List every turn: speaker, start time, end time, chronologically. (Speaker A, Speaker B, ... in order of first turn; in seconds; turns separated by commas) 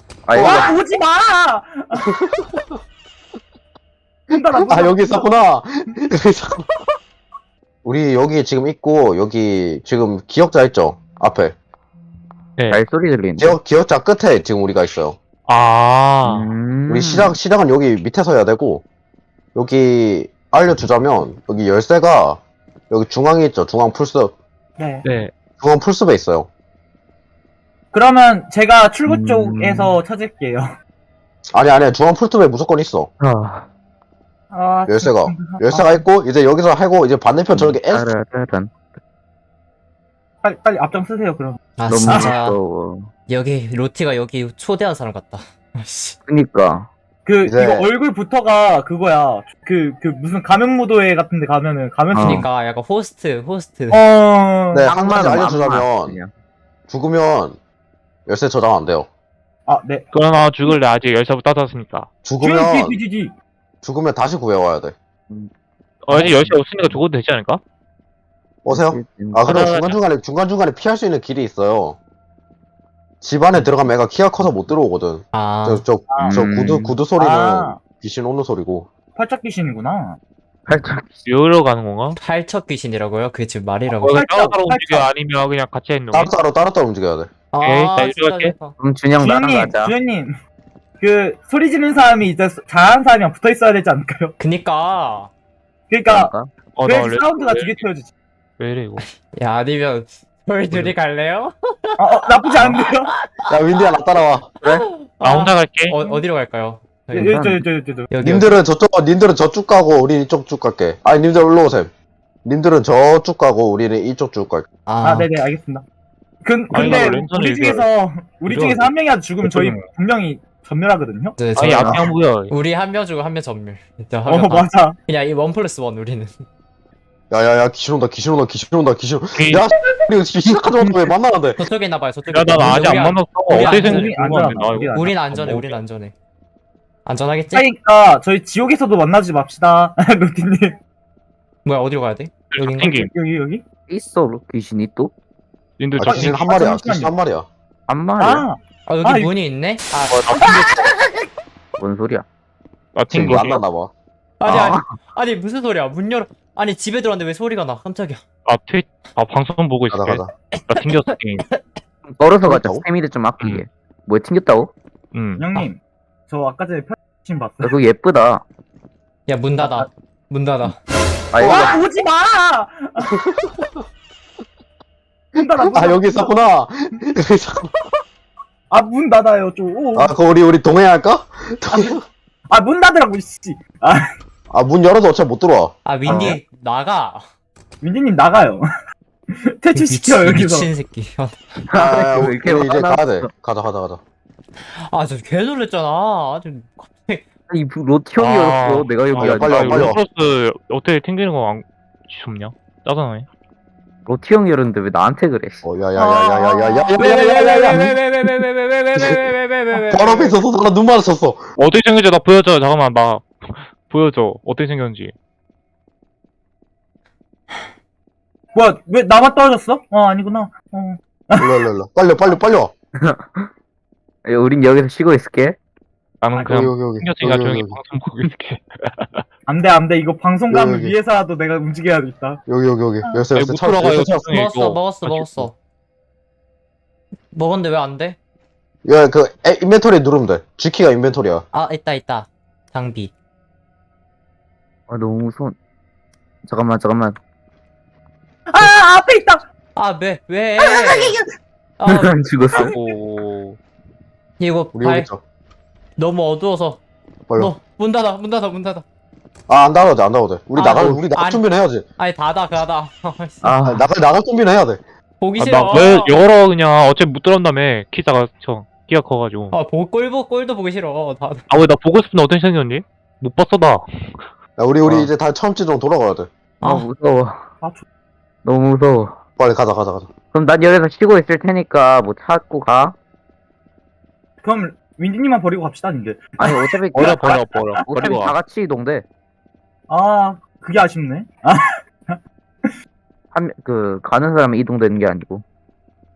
Speaker A: 0.2-0.8, Speaker B: 0.3-2.1, Speaker C: 0.3-0.7, Speaker C: 2.0-2.8, Speaker C: 4.3-6.7, Speaker B: 4.3-5.3, Speaker C: 7.8-11.6, Speaker A: 12.7-13.6, Speaker C: 13.4-15.2, Speaker D: 15.5-16.5, Speaker A: 16.2-17.4, Speaker C: 16.9-18.8, Speaker C: 19.5-24.3, Speaker B: 24.8-25.1, Speaker D: 25.0-25.3, Speaker C: 25.6-26.5, Speaker B: 27.9-30.7, Speaker A: 29.1-29.9, Speaker C: 31.5-33.1, Speaker A: 33.2-33.7, Speaker B: 34.5-36.0, Speaker C: 34.9-38.1, Speaker A: 37.5-38.7, Speaker B: 40.4-42.3, Speaker E: 41.8-42.6, Speaker A: 41.9-43.1, Speaker E: 43.3-46.2, Speaker A: 46.3-46.9, Speaker B: 47.3-52.5, Speaker C: 47.4-47.9, Speaker A: 52.1-52.5, Speaker E: 52.1-54.0, Speaker B: 53.9-54.9, Speaker C: 54.7-56.2, Speaker A: 54.8-56.3, Speaker C: 56.9-57.5, Speaker C: 58.3-59.1, Speaker B: 59.7-60.1, Speaker D: 60.1-62.1, Speaker C: 62.2-63.0, Speaker B: 62.4-63.3, Speaker C: 63.8-65.0, Speaker D: 66.1-67.6, Speaker A: 66.2-67.0, Speaker C: 68.7-72.0, Speaker A: 68.7-69.5, Speaker D: 69.5-70.0, Speaker C: 73.2-78.9, Speaker E: 75.3-75.8, Speaker B: 76.1-76.6, Speaker A: 76.2-77.0, Speaker B: 77.2-77.8, Speaker B: 79.2-80.2, Speaker A: 80.7-81.2, Speaker D: 81.3-82.2, Speaker E: 82.2-84.2, Speaker D: 83.9-86.3, Speaker B: 84.1-85.1, Speaker C: 86.1-87.3, Speaker E: 87.5-88.8, Speaker D: 87.6-88.6, Speaker A: 88.8-89.9, Speaker B: 89.2-90.3, Speaker B: 91.0-94.3, Speaker E: 94.4-95.3, Speaker B: 95.9-96.3, Speaker A: 96.1-96.5, Speaker D: 96.8-97.9, Speaker B: 96.9-98.1, Speaker D: 98.6-99.0, Speaker E: 99.0-103.5, Speaker B: 102.0-103.1, Speaker C: 103.5-104.5, Speaker A: 104.6-104.9, Speaker E: 104.7-108.5, Speaker D: 105.2-106.0, Speaker B: 107.1-108.1, Speaker C: 108.2-111.9, Speaker C: 112.5-114.7, Speaker E: 114.9-115.3, Speaker B: 115.0-115.9, Speaker B: 116.4-121.4, Speaker D: 116.7-117.9, Speaker E: 116.7-117.2, Speaker D: 118.5-119.9, Speaker E: 121.4-126.4, Speaker D: 121.5-122.5, Speaker A: 121.8-122.0, Speaker B: 124.3-125.0, Speaker C: 127.3-131.6, Speaker D: 129.3-129.7, Speaker B: 130.4-131.1, Speaker E: 131.6-134.2, Speaker D: 132.3-135.8, Speaker B: 133.5-135.2, Speaker E: 134.9-136.1, Speaker E: 137.1-137.7, Speaker B: 137.5-140.8, Speaker E: 141.6-142.9, Speaker D: 142.5-143.1, Speaker B: 142.8-143.6, Speaker A: 143.9-145.1, Speaker D: 145.8-146.5, Speaker C: 145.9-147.5, Speaker B: 146.1-147.1, Speaker A: 147.9-148.4, Speaker B: 148.2-149.3, Speaker E: 148.8-150.2, Speaker D: 150.1-150.8, Speaker B: 150.4-150.9, Speaker A: 151.8-152.2, Speaker D: 152.9-153.6, Speaker C: 153.1-153.9, Speaker E: 154.4-158.2, Speaker A: 154.4-154.8, Speaker D: 158.4-161.4, Speaker C: 159.9-160.3, Speaker E: 160.5-160.9, Speaker A: 162.1-164.7, Speaker C: 162.4-162.8, Speaker D: 165.1-165.6, Speaker B: 165.3-167.8, Speaker A: 167.6-168.4, Speaker E: 169.3-170.8, Speaker A: 171.3-171.8, Speaker B: 171.4-173.1, Speaker C: 173.0-173.8, Speaker B: 175.3-176.3, Speaker C: 175.7-177.7, Speaker B: 178.7-180.1, Speaker C: 179.9-182.0, Speaker B: 182.5-184.1, Speaker C: 184.5-185.7, Speaker E: 185.8-187.2, Speaker A: 186.1-186.4, Speaker B: 186.1-186.3, Speaker B: 187.8-188.6, Speaker B: 189.3-190.7, Speaker E: 189.7-191.4, Speaker A: 191.7-193.3, Speaker C: 191.8-194.0, Speaker E: 194.9-197.2, Speaker A: 197.5-200.0, Speaker D: 198.2-203.3, Speaker C: 199.2-200.0, Speaker A: 204.1-205.6, Speaker C: 205.6-208.0, Speaker B: 205.9-207.1, Speaker E: 207.0-210.3, Speaker C: 209.9-211.4, Speaker D: 211.6-215.1, Speaker B: 218.5-221.5, Speaker C: 221.4-222.7, Speaker A: 223.0-223.5, Speaker A: 224.2-225.6, Speaker D: 226.2-229.2, Speaker B: 226.3-226.7, Speaker C: 226.5-227.8, Speaker B: 229.5-232.4, Speaker C: 230.5-230.9, Speaker C: 232.5-234.3, Speaker D: 233.3-235.5, Speaker E: 234.3-235.5, Speaker E: 237.3-238.2, Speaker C: 238.8-241.4, Speaker E: 241.5-243.1, Speaker A: 244.9-245.6, Speaker A: 246.5-247.2, Speaker B: 248.5-249.4, Speaker E: 249.8-251.2, Speaker B: 250.6-251.2, Speaker E: 251.8-252.1, Speaker A: 251.8-252.7, Speaker D: 252.5-253.6, Speaker E: 254.4-255.1, Speaker C: 254.7-255.2, Speaker E: 256.0-256.8, Speaker E: 257.4-258.9, Speaker C: 259.5-261.9, Speaker E: 260.6-261.4, Speaker E: 262.0-263.5, Speaker A: 263.4-263.9, Speaker C: 263.6-264.8, Speaker E: 265.2-266.2, Speaker D: 265.4-269.6, Speaker E: 269.5-271.4, Speaker D: 271.5-274.2, Speaker C: 274.6-276.3, Speaker A: 274.8-275.1, Speaker E: 276.6-276.9, Speaker A: 276.6-277.4, Speaker A: 278.4-279.2, Speaker C: 279.4-280.1, Speaker A: 280.3-282.9, Speaker B: 284.4-287.8, Speaker A: 286.4-289.1, Speaker D: 286.9-288.4, Speaker B: 289.9-292.7, Speaker A: 293.3-295.4